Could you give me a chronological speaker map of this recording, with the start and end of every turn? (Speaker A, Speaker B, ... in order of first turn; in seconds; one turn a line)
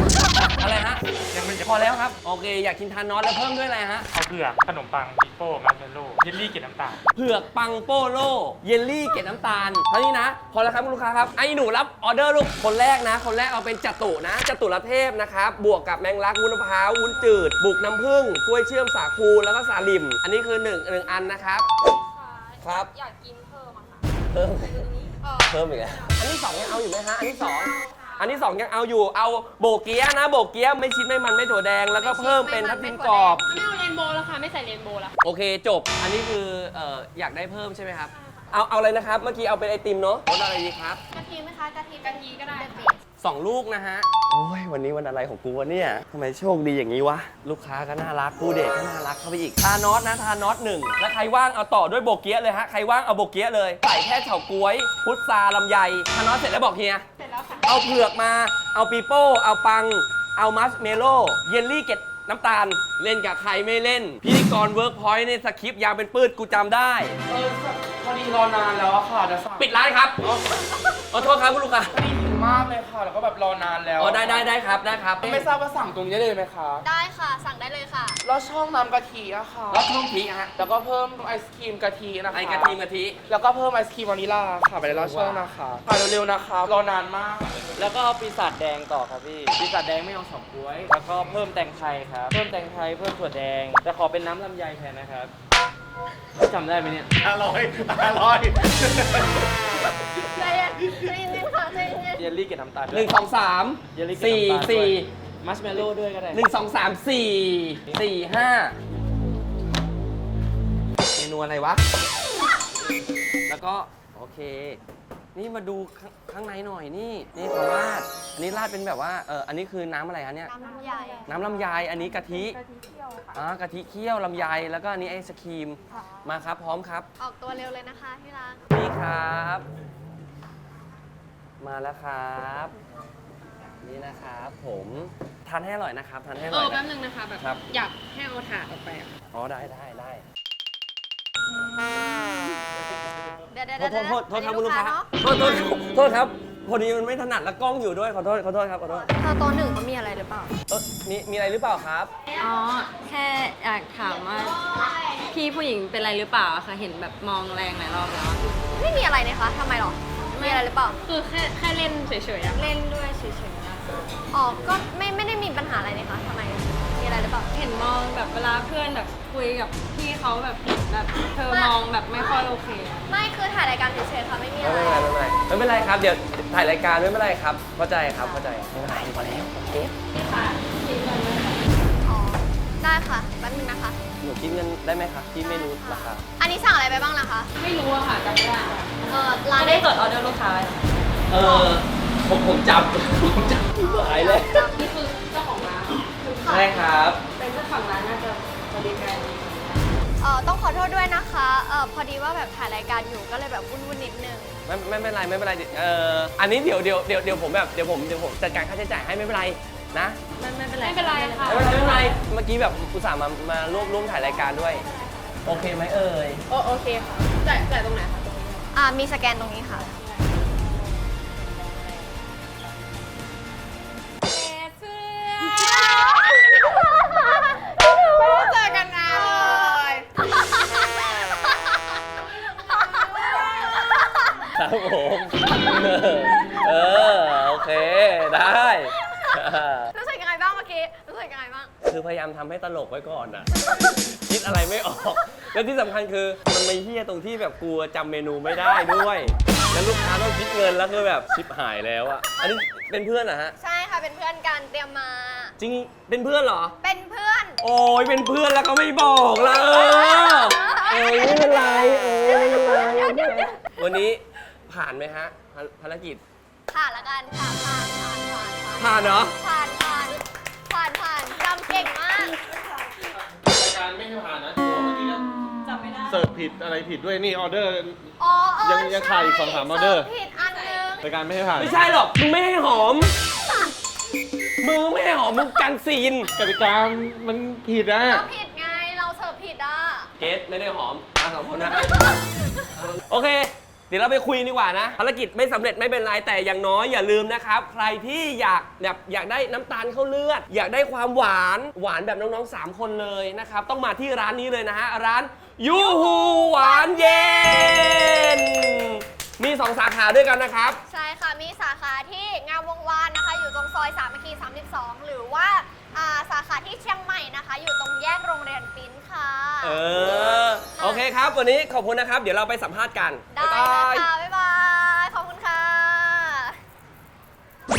Speaker A: 0.2-1.0
Speaker B: 1.3-2.0
Speaker A: 1.6-4.1
Speaker B: 4.1-7.0
Speaker A: 7.1-21.7
Speaker C: 21.9-26.2
Speaker A: 22.6-22.9
Speaker A: 24.3-33.4
Speaker C: 27.4-28.4
Speaker D: 32.0-33.4
Speaker C: 33.4-35.1
Speaker A: 35.2-41.0
Speaker D: 41.1-43.0
Speaker C: 42.0-42.9
Speaker A: 43.2-57.0
Speaker C: 57.2-57.8
Speaker A: 57.6-67.2
Speaker E: 67.3-69.7
Speaker A: 69.6-70.2
Speaker E: 70.2-70.6
Speaker A: 71.1-72.0
Speaker E: 71.9-74.5
Speaker A: 74.0-75.5
Speaker E: 75.2-76.8
Speaker D: 76.8-78.2
Speaker E: 78.2-79.9
Speaker A: 79.7-80.6
Speaker E: 80.6-87.7
Speaker A: 82.3-83.2
Speaker F: 84.8-85.8
Speaker A: 85.0-85.3
Speaker F: 87.8-95.3
Speaker F: 96.4-97.2
Speaker G: 97.2-99.5
Speaker D: 99.0-99.6
Speaker D: 100.2-102.2
Speaker F: 102.2-103.1
Speaker A: 102.9-105.1
Speaker F: 103.9-106.4
Speaker A: 106.3-108.8
Speaker A: 111.1-111.8
Speaker A: 113.5-114.8
Speaker A: 115.3-120.5
Speaker D: 120.5-121.3
Speaker A: 121.3-122.6
Speaker A: 123.3-127.1
Speaker D: 127.2-128.7
Speaker A: 128.7-129.7
Speaker A: 131.6-132.7
Speaker A: 133.8-136.8
Speaker C: 136.5-139.1
Speaker A: 137.4-137.6
Speaker A: 139.3-140.2
Speaker D: 143.5-145.7
Speaker A: 143.8-149.1
Speaker D: 149.1-150.5
Speaker A: 150.7-152.1
Speaker H: 152.4-154.6
Speaker D: 154.3-155.2
Speaker H: 155.3-158.5
Speaker D: 158.7-161.0
Speaker H: 160.3-163.9
Speaker C: 161.3-162.6
Speaker D: 164.3-167.5
Speaker H: 167.5-173.0
Speaker D: 171.5-171.7
Speaker D: 173.1-175.1
Speaker A: 174.6-179.9
Speaker D: 178.2-178.4
Speaker H: 180.1-181.6
Speaker D: 182.0-184.0
Speaker A: 184.2-186.2
Speaker D: 185.8-187.5
Speaker C: 187.6-188.9
Speaker D: 189.1-189.8
Speaker H: 189.6-190.9
Speaker A: 191.3-194.7
Speaker D: 191.4-191.7
Speaker D: 193.8-194.9
Speaker C: 194.8-196.6
Speaker H: 195.9-196.6
Speaker A: 196.4-197.2
Speaker H: 197.3-200.0
Speaker D: 200.2-204.6
Speaker A: 204.7-210.2
Speaker H: 210.3-212.1
Speaker C: 210.8-212.0
Speaker A: 211.4-214.8
Speaker A: 215.4-216.4
Speaker C: 216.5-218.7
Speaker D: 218.7-219.9
Speaker C: 219.9-220.6
Speaker H: 221.4-222.0
Speaker C: 224.3-226.0
Speaker D: 225.4-227.6
Speaker C: 227.9-230.1
Speaker D: 228.1-232.0
Speaker D: 232.5-234.5
Speaker C: 232.8-233.7
Speaker A: 234.5-239.9
Speaker D: 235.4-236.0
Speaker D: 236.5-239.4
Speaker D: 239.9-241.7
Speaker A: 241.8-253.5
Speaker D: 248.5-249.0
Speaker D: 249.6-250.1
Speaker D: 252.3-252.6
Speaker D: 253.6-255.5
Speaker A: 255.6-256.8
Speaker D: 256.8-257.6
Speaker A: 257.6-266.2
Speaker D: 259.4-263.6
Speaker D: 266.7-272.4
Speaker A: 268.8-269.4
Speaker G: 273.1-275.4
Speaker H: 275.6-276.2
Speaker G: 276.1-280.1
Speaker D: 278.2-281.1
Speaker G: 281.0-281.7
Speaker A: 281.5-283.1
Speaker A: 284.6-286.3
Speaker G: 286.3-288.2
Speaker D: 288.1-290.1
Speaker A: 290.2-291.9
Speaker D: 291.6-292.4
Speaker A: 292.7-310.8
Speaker D: 305.7-308.1
Speaker D: 310.9-319.8
Speaker A: 319.6-324.1
Speaker D: 320.8-321.1
Speaker D: 323.3-326.6